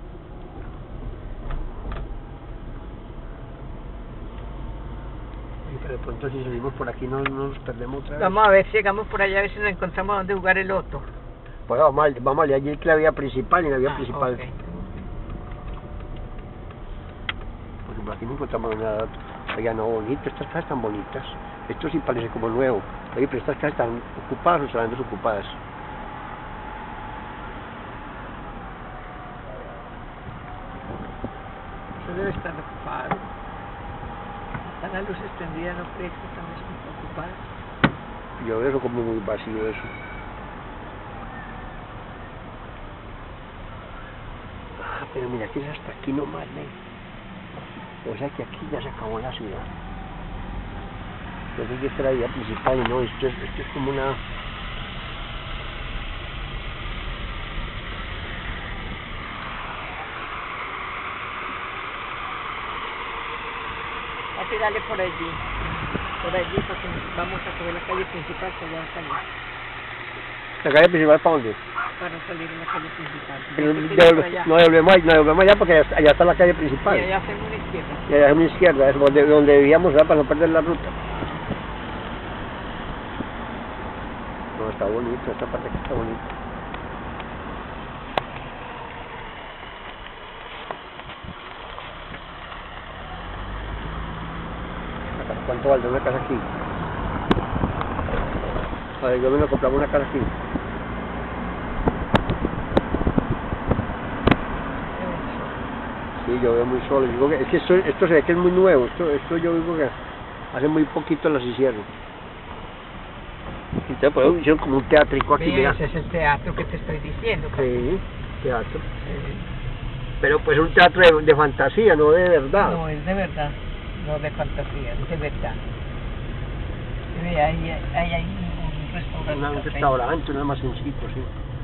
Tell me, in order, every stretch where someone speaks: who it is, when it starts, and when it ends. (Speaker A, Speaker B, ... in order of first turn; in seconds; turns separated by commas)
Speaker A: 5.6-8.4, Speaker B: 8.2-11.1, Speaker A: 11.7-14.4, Speaker B: 13.8-15.1, Speaker A: 17.8-25.6, Speaker B: 31.9-33.3, Speaker B: 34.6-37.4, Speaker A: 38.4-39.9, Speaker A: 44.8-46.8, Speaker A: 48.0-49.7, Speaker A: 51.5-54.2, Speaker B: 64.3-69.3, Speaker A: 70.6-71.6, Speaker B: 72.0-74.5, Speaker A: 73.5-77.1, Speaker B: 76.8-78.1, Speaker A: 78.1-81.0, Speaker A: 84.5-86.3, Speaker A: 95.1-96.5, Speaker A: 99.0-100.3, Speaker B: 104.7-105.6, Speaker A: 106.2-110.0, Speaker A: 110.5-111.9, Speaker A: 113.8-115.8, Speaker B: 115.3-117.8, Speaker A: 117.5-118.8, Speaker B: 119.0-119.5, Speaker A: 120.2-122.8, Speaker B: 122.6-125.7, Speaker B: 127.1-129.9, Speaker A: 129.2-131.3